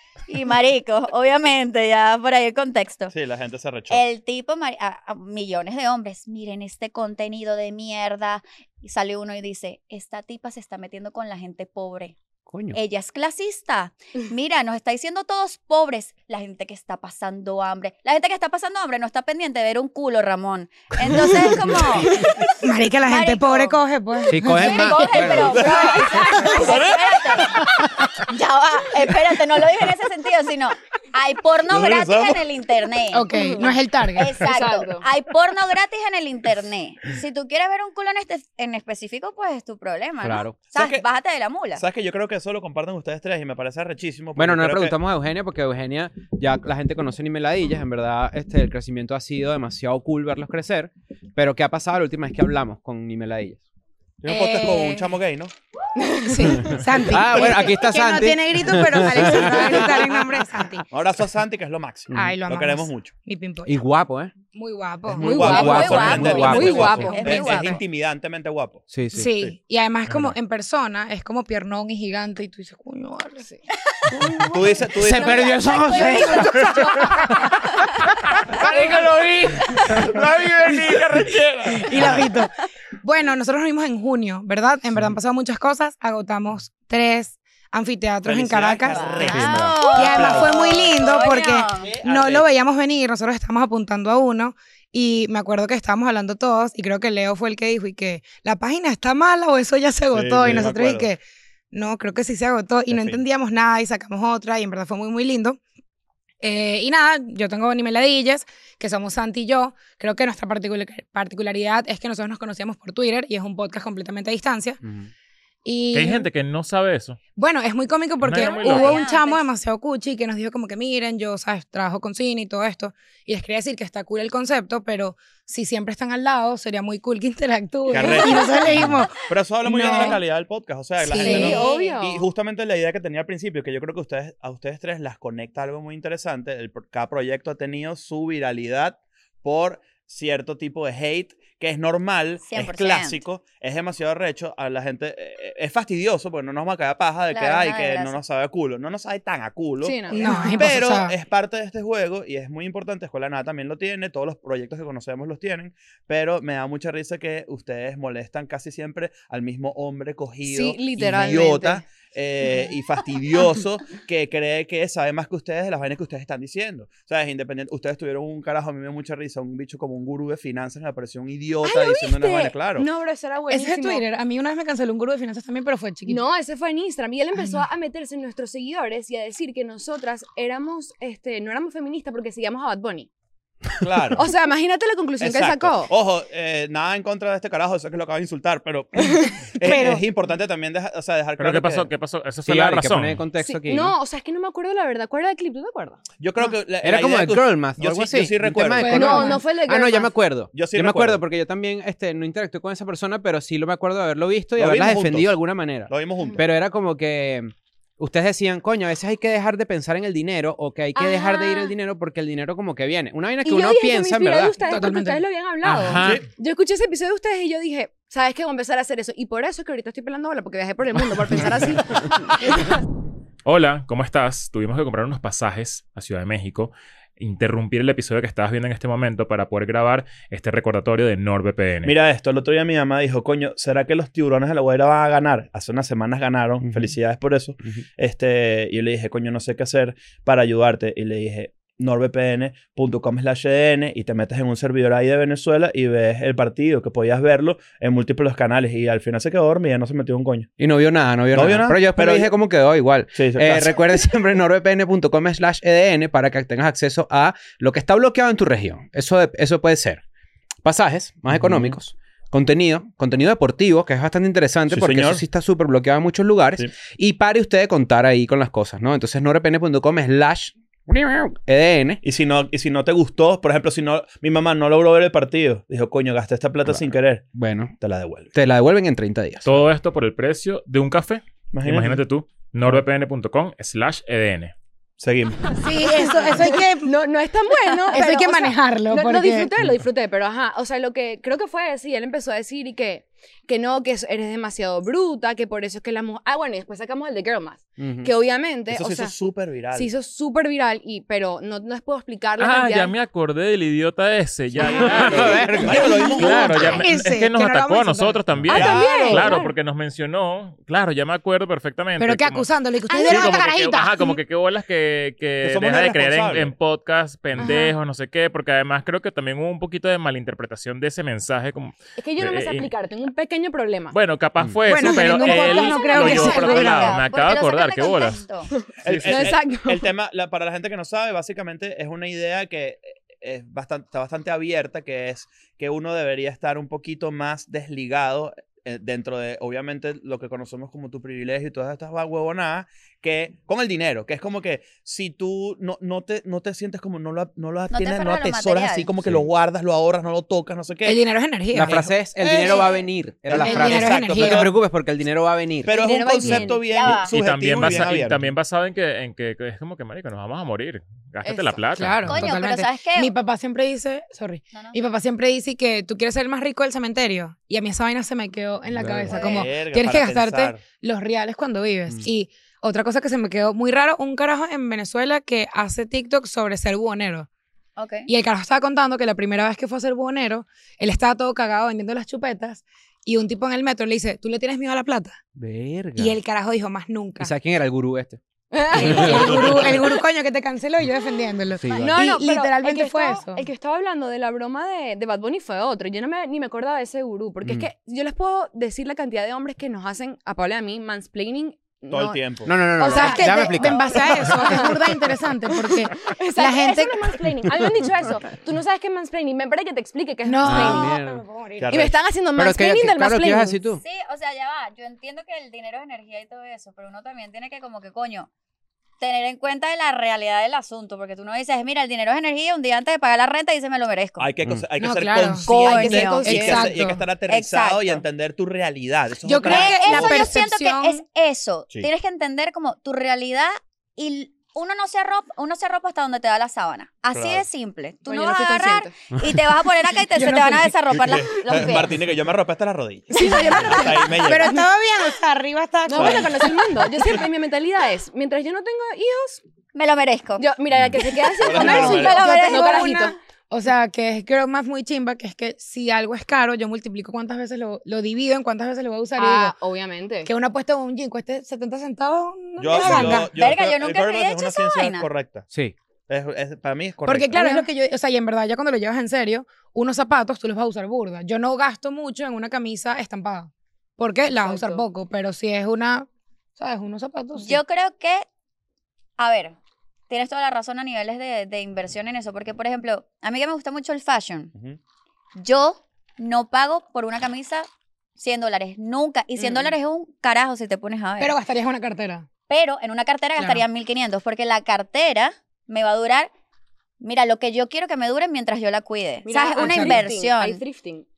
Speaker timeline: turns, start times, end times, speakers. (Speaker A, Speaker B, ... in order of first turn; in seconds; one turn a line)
Speaker A: 0.3-3.1
Speaker B: 3.1-4.0
Speaker A: 3.9-12.2
Speaker C: 12.5-12.8
Speaker A: 12.7-22.6
Speaker D: 22.6-25.7
Speaker A: 23.1-23.8
Speaker C: 24.3-25.7
Speaker A: 24.4-27.6
Speaker B: 25.4-27.1
Speaker E: 26.0-26.5
Speaker A: 28.2-41.8
Speaker B: 31.7-32.4
Speaker D: 33.1-34.4
Speaker E: 33.3-33.7
Speaker E: 34.4-35.0
Speaker C: 40.2-40.6
Speaker B: 40.7-41.0
Speaker B: 41.8-45.0
Speaker C: 44.3-53.6
Speaker B: 54.2-55.5
Speaker D: 54.3-55.1
Speaker E: 56.0-56.9
Speaker D: 56.3-60.9
Speaker C: 56.6-60.2
Speaker B: 60.9-63.1
Speaker D: 62.1-63.7
Speaker C: 63.6-64.3
Speaker D: 64.5-65.5
Speaker B: 65.1-68.9
Speaker E: 65.2-67.2
Speaker C: 65.2-67.1
Speaker A: 65.6-67.8
Speaker D: 66.9-67.8
Speaker C: 68.9-69.3
Speaker D: 69.1-73.5
Speaker C: 70.1-70.3
Speaker D: 74.1-74.8
Speaker B: 74.5-75.6
Speaker C: 75.0-76.5
Speaker E: 75.0-77.1
Speaker D: 75.9-77.4
Speaker B: 78.5-82.3
Speaker E: 78.7-79.0
Speaker D: 81.8-101.2
Speaker B: 88.2-90.9
Speaker A: 88.9-91.9
Speaker C: 89.3-89.8
Speaker B: 91.8-92.5
Speaker B: 100.1-101.1
Speaker D: 101.7-105.6
Speaker B: 102.9-103.2
Speaker D: 106.4-114.8
Speaker C: 114.8-115.1
Speaker D: 115.6-116.3
Speaker F: 115.9-117.2
Speaker D: 117.3-130.2
Speaker F: 118.2-119.0
Speaker A: 118.3-119.4
Speaker B: 127.9-172.9
Speaker A: 128.0-128.8
Speaker D: 131.0-131.7
Speaker E: 131.1-132.3
Speaker A: 142.4-143.2
Speaker A: 147.3-148.2
Speaker E: 149.8-150.7
Speaker D: 150.1-151.1
Speaker E: 160.4-161.8
Speaker E: 171.6-174.0
Speaker D: 173.5-176.2
Speaker E: 176.0-183.1
Speaker D: 177.4-177.7
Speaker B: 183.8-184.3
Speaker E: 184.1-185.9
Speaker B: 185.2-191.9
Speaker D: 189.6-190.0
Speaker F: 191.4-193.2
Speaker C: 192.4-193.9
Speaker E: 193.4-196.0
Speaker B: 196.2-199.2
Speaker C: 196.8-214.5
Speaker D: 198.8-199.5
Speaker E: 198.9-200.1
Speaker B: 200.5-201.2
Speaker B: 204.6-206.4
Speaker A: 210.9-211.7
Speaker E: 213.4-222.7
Speaker D: 214.6-215.3
Speaker C: 215.6-216.2
Speaker B: 216.0-216.2
Speaker F: 223.4-231.9
Speaker B: 231.8-250.5
Speaker C: 236.6-236.9
Speaker C: 250.6-260.0
Speaker B: 251.3-252.3
Speaker B: 253.1-253.8
Speaker C: 260.6-272.0
Speaker B: 261.3-261.8
Speaker B: 264.7-265.2
Speaker B: 272.0-278.3
Speaker C: 276.6-277.7
Speaker C: 278.3-279.6
Speaker F: 279.4-284.5
Speaker B: 281.5-282.0
Speaker B: 285.0-285.6
Speaker D: 285.6-286.9
Speaker E: 286.2-299.1
Speaker D: 287.9-289.5
Speaker C: 297.8-298.1
Speaker B: 298.7-299.9
Speaker E: 299.7-302.9
Speaker F: 302.4-312.5
Speaker B: 304.6-306.9
Speaker C: 304.6-305.8
Speaker D: 305.8-308.2
Speaker E: 308.5-309.5
Speaker B: 308.5-309.4
Speaker D: 312.0-314.2
Speaker E: 312.9-313.3
Speaker F: 313.1-322.7
Speaker B: 315.4-316.5
Speaker E: 317.4-317.7
Speaker E: 322.0-323.9
Speaker F: 323.9-328.2
Speaker D: 324.7-327.0
Speaker E: 324.8-325.9
Speaker A: 325.3-328.5
Speaker E: 328.6-329.9
Speaker B: 328.8-351.0
Speaker F: 328.9-329.3
Speaker A: 347.7-348.9
Speaker D: 350.9-351.9
Speaker C: 351.5-356.0
Speaker B: 351.6-354.6
Speaker D: 353.4-354.5
Speaker B: 355.6-358.3
Speaker E: 355.7-356.9
Speaker A: 356.7-357.1
Speaker F: 357.1-362.1
Speaker C: 357.6-357.9
Speaker E: 361.2-361.7
Speaker D: 361.7-377.3
Speaker A: 362.1-363.1
Speaker A: 364.5-364.8
Speaker C: 368.8-369.1
Speaker B: 368.9-370.6
Speaker A: 369.1-369.4
Speaker A: 377.8-378.1
Speaker D: 378.1-385.2
Speaker C: 385.4-386.2
Speaker D: 385.9-387.3
Speaker C: 387.2-388.2
Speaker E: 388.5-389.6
Speaker C: 388.7-389.7
Speaker D: 388.7-393.4
Speaker C: 391.6-392.0
Speaker E: 391.7-404.9
Speaker C: 397.4-397.7
Speaker B: 401.9-402.6
Speaker C: 402.4-404.6
Speaker D: 402.8-407.1
Speaker E: 405.5-411.0
Speaker D: 410.2-411.8
Speaker C: 410.4-411.2
Speaker B: 411.6-411.9
Speaker E: 411.7-413.6
Speaker C: 412.4-413.8
Speaker A: 413.8-418.3
Speaker A: 419.0-424.3
Speaker B: 424.2-430.3
Speaker D: 424.8-425.5
Speaker A: 425.4-426.6
Speaker E: 425.5-426.7
Speaker D: 426.2-427.0
Speaker A: 427.3-428.0
Speaker D: 429.2-431.0
Speaker A: 429.5-441.9
Speaker B: 437.1-437.4
Speaker E: 438.1-438.9
Speaker D: 440.1-440.8
Speaker B: 440.9-444.6
Speaker E: 443.1-444.6
Speaker D: 443.2-446.9
Speaker E: 445.9-449.4
Speaker B: 445.9-446.3
Speaker A: 449.7-450.4
Speaker E: 450.4-453.1
Speaker B: 450.8-452.2
Speaker A: 451.5-453.0
Speaker D: 451.6-459.6
Speaker E: 459.2-460.3
Speaker D: 460.2-463.3
Speaker B: 462.6-465.5
Speaker A: 462.7-465.1
Speaker C: 465.5-465.7
Speaker B: 466.1-467.6
Speaker D: 467.1-477.6
Speaker E: 474.4-474.8
Speaker A: 477.4-478.2
Speaker A: 479.2-479.6
Speaker A: 480.1-484.5
Speaker B: 484.5-484.8
Speaker A: 485.4-491.3
Speaker E: 489.4-489.7
Speaker D: 491.2-492.2
Speaker A: 492.5-496.3
Speaker D: 493.4-493.6
Speaker A: 497.0-500.6
Speaker E: 499.2-501.1
Speaker D: 499.6-500.0